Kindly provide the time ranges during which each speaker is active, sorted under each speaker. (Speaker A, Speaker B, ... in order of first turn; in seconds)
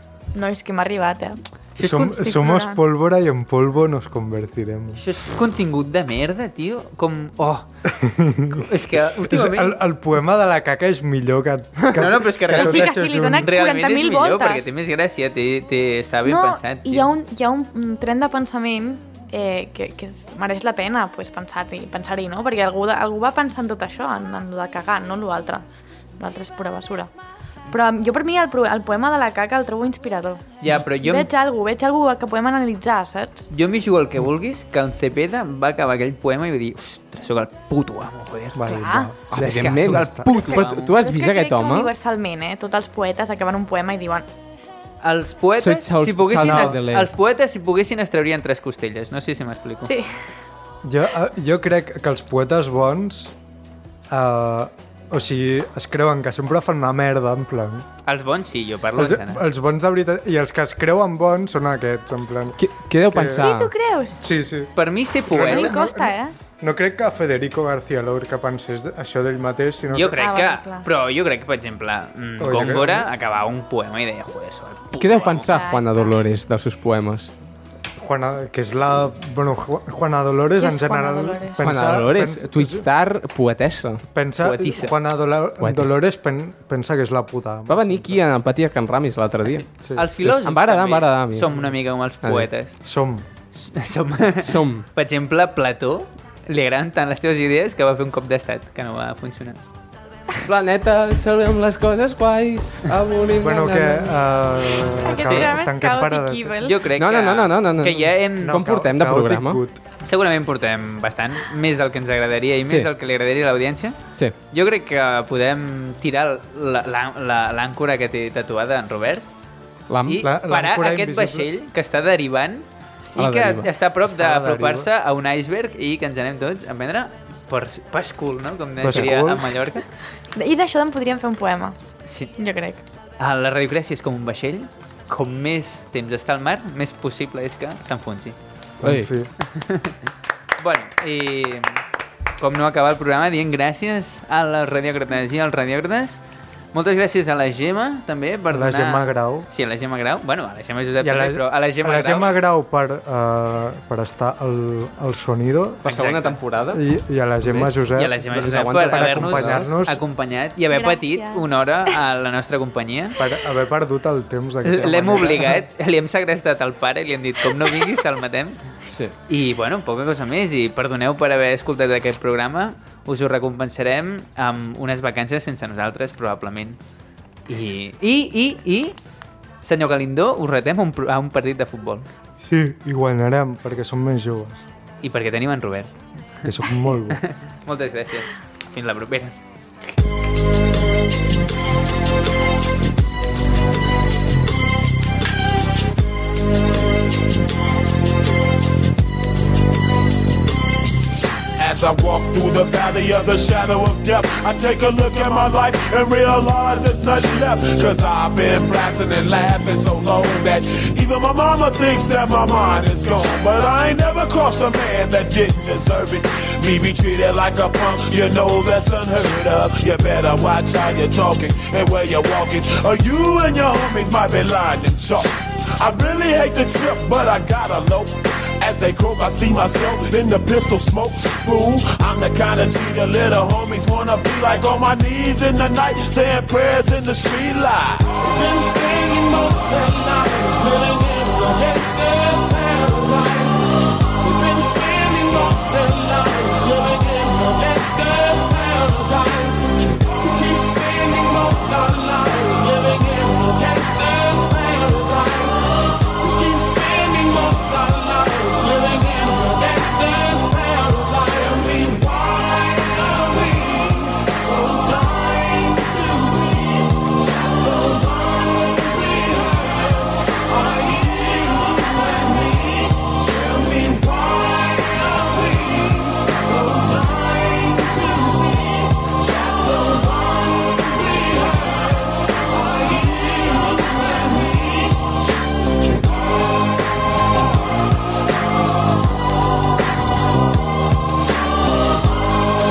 Speaker A: 0.3-2.8, 12.5-14.7, 16.2-25.6, 26.2-27.1, 27.7-33.5, 38.6-39.1, 40.3-44.3, 49.8-50.2, 63.4-64.3, 65.3-66.3, 70.1-70.9, 75.2-76.2, 80.5-81.6, 105.0-106.8, 130.3-131.8, 132.4-132.8, 160.7-161.4
Speaker B: 1.8-5.0, 7.9-13.5, 38.5-40.3, 46.4-46.8, 50.8-53.3, 54.1-57.9, 59.0-62.6, 63.1-63.5, 64.2-64.7, 65.2-70.2, 72.4-73.1, 78.0-82.9, 84.1-88.2, 89.8-90.1, 92.8-93.3, 103.4-106.7, 108.4-109.8, 120.2-121.5, 124.1-124.9, 128.8-129.6, 138.8-139.3, 148.5-149.5, 151.0-156.0, 156.7-160.0, 163.2-165.6, 182.4-184.6, 186.4-187.2
Speaker C: 1.8-2.1, 5.0-7.7, 8.6-9.8, 11.9-17.1, 30.6-31.3, 33.5-38.7, 39.3-40.9, 45.0-49.9, 58.0-59.4, 64.8-65.8, 69.9-75.6, 84.4-85.0, 89.4-92.7, 93.5-99.6, 105.2-105.5, 106.6-108.6, 110.0-114.0, 114.5-119.2, 120.0-129.8, 132.1-132.3, 133.2-138.4, 139.4-140.0, 140.6-141.8, 142.4-146.2, 146.7-152.3, 155.8-156.4, 157.9-163.2, 164.6-168.6, 169.3-176.8, 177.5-179.0, 179.6-182.1, 185.0-185.9, 187.1-189.3
Speaker D: 39.3-41.9, 45.6-47.1, 62.6-63.7, 75.0-77.3, 81.6-84.0, 85.6-85.9, 87.7-89.7, 90.2-91.5, 92.2-92.5, 94.4-94.8, 100.4-104.2, 107.0-109.6, 119.9-120.2, 123.2-123.7, 138.8-139.1, 155.8-156.8, 157.4-159.7, 168.9-169.1
Speaker E: 201.6-285.2